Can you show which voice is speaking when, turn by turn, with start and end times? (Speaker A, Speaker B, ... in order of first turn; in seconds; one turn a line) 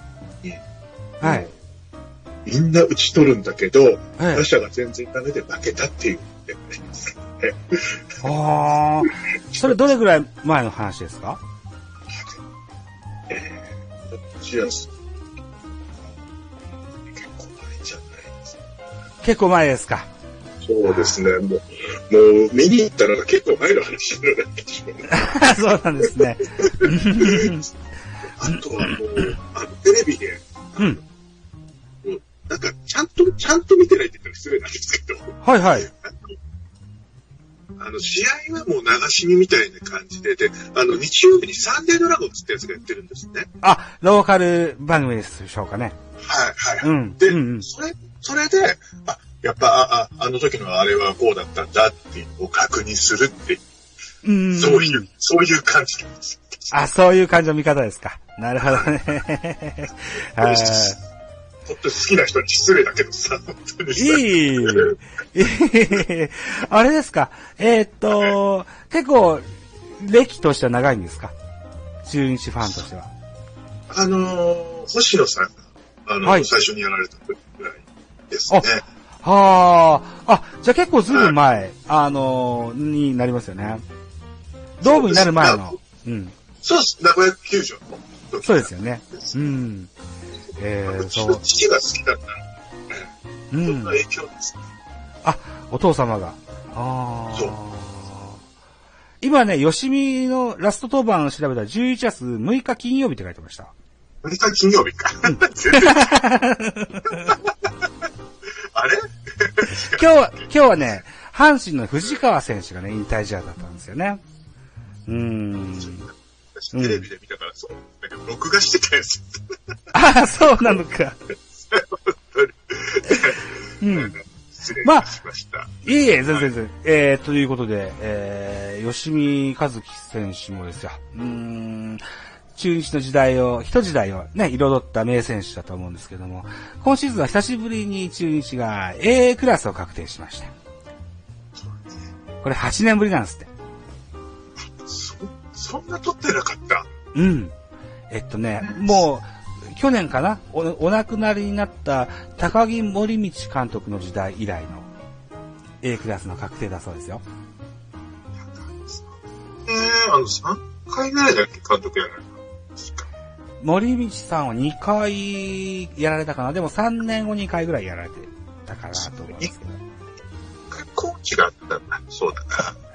Speaker A: 1.2-1.6
Speaker B: 1.2-1.5
Speaker A: 2.5-8.0
Speaker B: 4.2-4.4
Speaker B: 8.2-11.4
Speaker A: 9.5-9.8
Speaker A: 13.3-15.0
Speaker A: 17.1-18.6
Speaker B: 19.2-20.1
Speaker A: 20.6-27.6
Speaker B: 20.9-21.2
Speaker B: 25.1-27.7
Speaker A: 28.4-31.0
Speaker B: 28.5-28.9
Speaker A: 32.0-35.3
Speaker B: 35.4-35.9
Speaker A: 37.8-43.5
Speaker B: 43.6-46.0
Speaker A: 46.2-53.6
Speaker B: 46.8-47.7
Speaker B: 54.2-55.1
Speaker A: 54.5-56.9
Speaker B: 56.7-61.0
Speaker A: 58.6-58.9
Speaker A: 60.4-61.0
Speaker A: 61.6-65.0
Speaker B: 64.0-69.5
Speaker B: 70.0-71.3
Speaker B: 72.0-73.1
Speaker A: 73.9-78.8
Speaker B: 76.2-76.5
Speaker B: 79.2-83.8
Speaker A: 81.1-81.3
Speaker B: 84.8-86.3
Speaker A: 84.8-85.8
Speaker A: 86.6-89.3
Speaker B: 88.4-89.9
Speaker B: 90.6-91.4
Speaker A: 90.9-92.4
Speaker B: 93.5-94.0
Speaker A: 93.6-94.6
Speaker B: 95.2-98.4
Speaker B: 99.2-103.7
Speaker A: 104.2-106.1
Speaker B: 105.3-107.3
Speaker A: 107.0-107.7
Speaker A: 108.7-110.9
Speaker B: 109.7-114.2
Speaker B: 115.1-116.1
Speaker A: 115.8-119.5
Speaker B: 116.7-117.0
Speaker B: 119.9-121.2
Speaker A: 121.7-126.5
Speaker B: 123.8-124.2
Speaker B: 124.8-125.1
Speaker B: 125.8-132.0
Speaker B: 132.6-140.5
Speaker A: 141.6-142.0
Speaker B: 142.4-143.5
Speaker A: 144.8-146.9
Speaker B: 147.1-147.6
Speaker B: 148.1-154.9
Speaker A: 148.6-149.0
Speaker B: 155.8-157.2
Speaker A: 158.4-159.1
Speaker A: 159.7-163.1
Speaker B: 163.6-169.8
Speaker A: 168.9-169.5
Speaker A: 170.7-172.8